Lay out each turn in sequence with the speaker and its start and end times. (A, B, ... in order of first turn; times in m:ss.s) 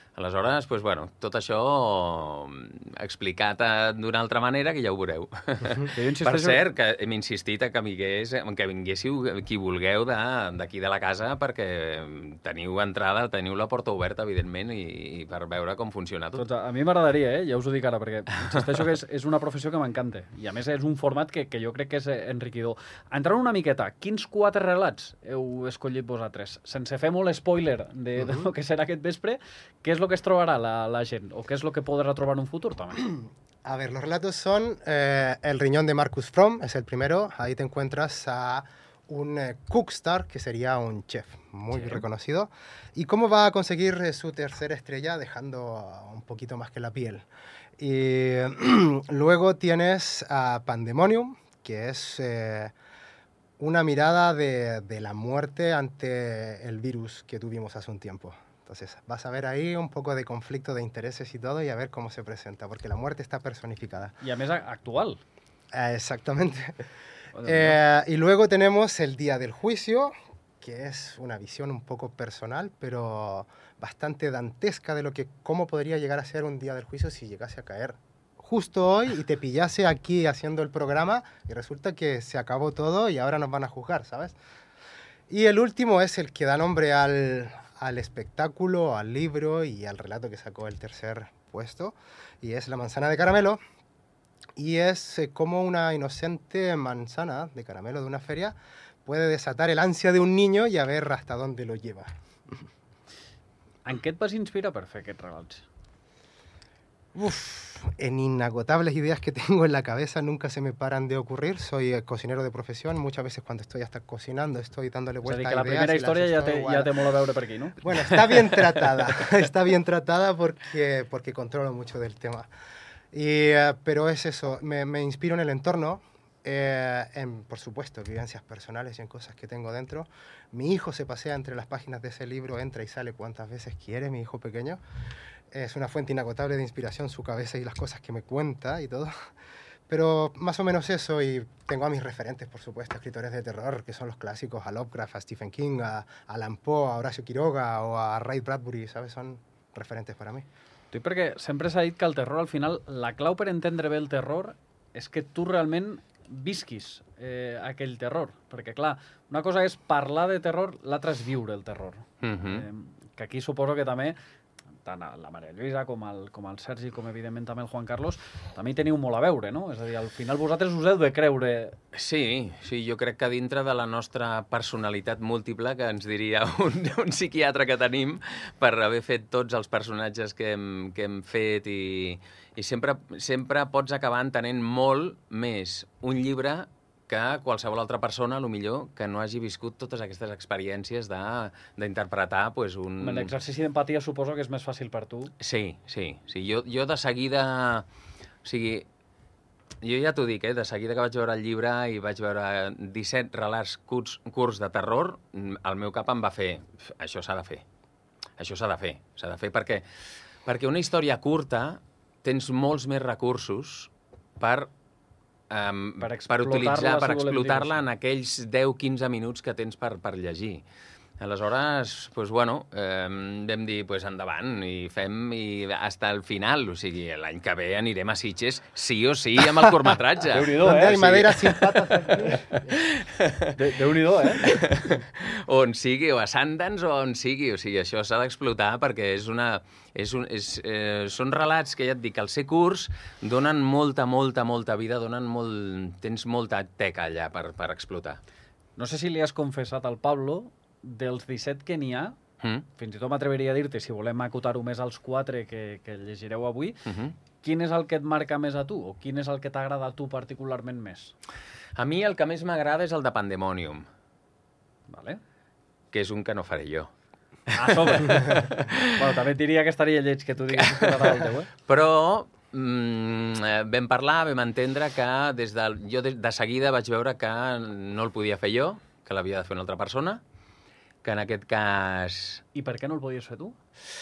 0:00.2-0:16.5 A
0:05.9-0:06.6 B
0:16.4-0:33.0 B
0:28.2-0:28.5 C
0:33.0-0:47.2 C
0:41.7-0:42.0 B
0:47.8-0:52.7 C
0:53.6-1:04.2 C
1:04.2-1:05.2 B
1:05.7-1:06.8 C
1:07.3-1:07.8 B
1:07.4-1:24.4 C
1:25.3-1:33.6 C
1:34.6-1:42.6 C
1:43.8-1:45.6 B
1:47.1-1:56.9 C
1:55.2-1:57.8 B
1:57.8-2:02.5 C
2:03.1-2:14.8 C
2:15.5-2:19.2 C
2:19.9-2:30.4 C
2:30.9-2:44.2 B
2:42.2-2:42.6 A
2:44.8-2:51.8 B
2:51.9-3:13.3 A
3:13.0-3:15.3 B
3:15.4-3:17.9 A
3:18.4-3:18.9 A
3:19.8-3:27.6 A
3:28.4-3:29.8 A
3:30.4-3:34.7 A
3:35.5-3:40.6 A
3:36.0-3:37.8 B
3:41.2-3:53.7 A
3:50.3-3:51.4 B
3:50.6-3:52.7 C
3:53.5-3:54.6 B
3:54.3-4:08.2 A
4:08.8-4:12.2 B
4:12.8-4:16.8 B
4:16.9-4:17.1 A
4:17.4-4:21.1 B
4:21.8-4:23.8 A
4:24.9-4:25.2 B
4:25.9-4:26.9 A
4:27.5-4:28.9 A
4:27.5-4:31.5 B
4:30.5-4:40.2 A
4:41.0-4:42.4 A
4:42.6-4:43.6 B